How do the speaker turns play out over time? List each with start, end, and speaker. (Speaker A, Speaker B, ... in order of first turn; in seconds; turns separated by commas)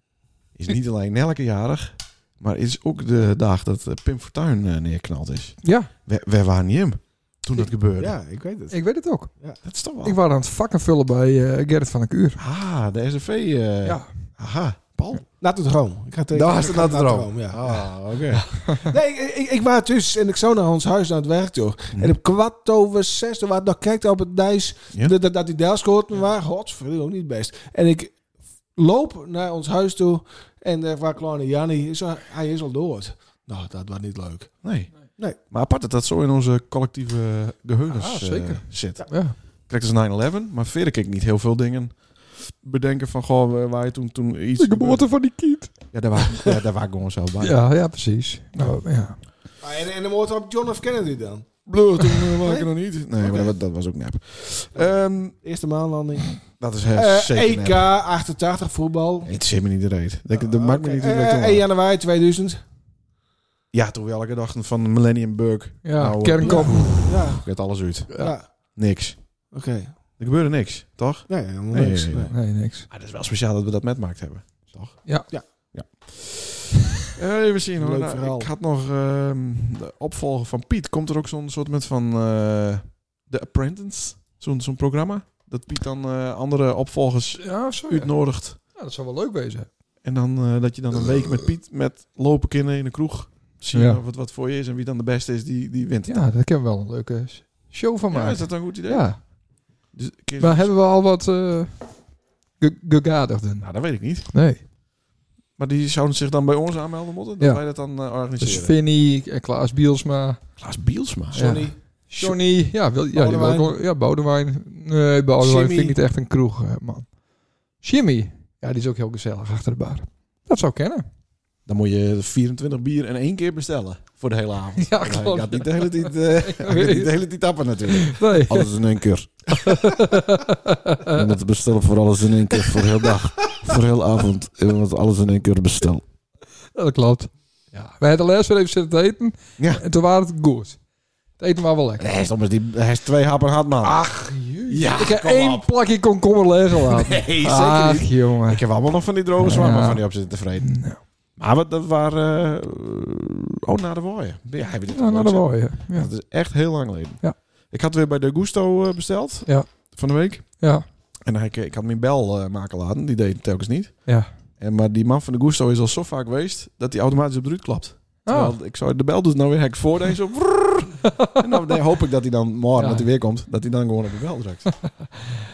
Speaker A: 0.5-8.2, Speaker B: 5.6-5.9, Speaker C: 7.5-9.6, Speaker B: 8.7-12.4, Speaker A: 9.6-10.2, Speaker A: 12.4-15.3, Speaker B: 13.8-14.3, Speaker C: 15.4-28.2, Speaker A: 16.3-18.6, Speaker C: 28.8-35.4, Speaker A: 34.6-47.6, Speaker B: 37.9-39.4, Speaker B: 44.6-45.9, Speaker B: 47.4-49.2, Speaker A: 48.6-48.8, Speaker C: 49.6-51.6, Speaker A: 51.6-55.3, Speaker C: 52.4-52.7, Speaker C: 53.2-53.5, Speaker C: 54.7-59.3, Speaker A: 56.6-57.9, Speaker A: 59.2-61.6, Speaker C: 60.3-62.6, Speaker A: 63.7-69.5, Speaker B: 65.8-67.3, Speaker C: 66.4-68.7, Speaker B: 68.1-68.3, Speaker C: 69.5-70.0, Speaker A: 70.2-88.6, Speaker C: 71.3-72.3, Speaker B: 72.3-72.9, Speaker B: 75.0-75.7, Speaker C: 77.8-78.5, Speaker B: 87.4-89.7, Speaker A: 90.0-96.3, Speaker B: 93.7-94.0, Speaker B: 96.1-99.6, Speaker A: 98.1-100.7, Speaker B: 100.4-104.6, Speaker A: 103.6-104.3, Speaker A: 105.5-108.8, Speaker B: 107.4-110.6, Speaker A: 110.6-112.4, Speaker B: 111.3-117.2, Speaker C: 111.3-111.7, Speaker C: 113.1-113.8, Speaker C: 115.4-116.0, Speaker B: 117.7-121.0, Speaker A: 121.6-130.2, Speaker B: 124.8-127.2, Speaker B: 127.9-128.7, Speaker B: 129.6-131.3, Speaker A: 131.1-136.0, Speaker B: 136.7-140.8, Speaker A: 139.6-139.8, Speaker B: 141.4-142.1, Speaker A: 142.0-145.7, Speaker B: 143.8-151.0, Speaker A: 146.7-174.8, Speaker B: 154.9-156.1, Speaker B: 159.4-160.8, Speaker B: 168.2-168.6, Speaker B: 172.7-173.1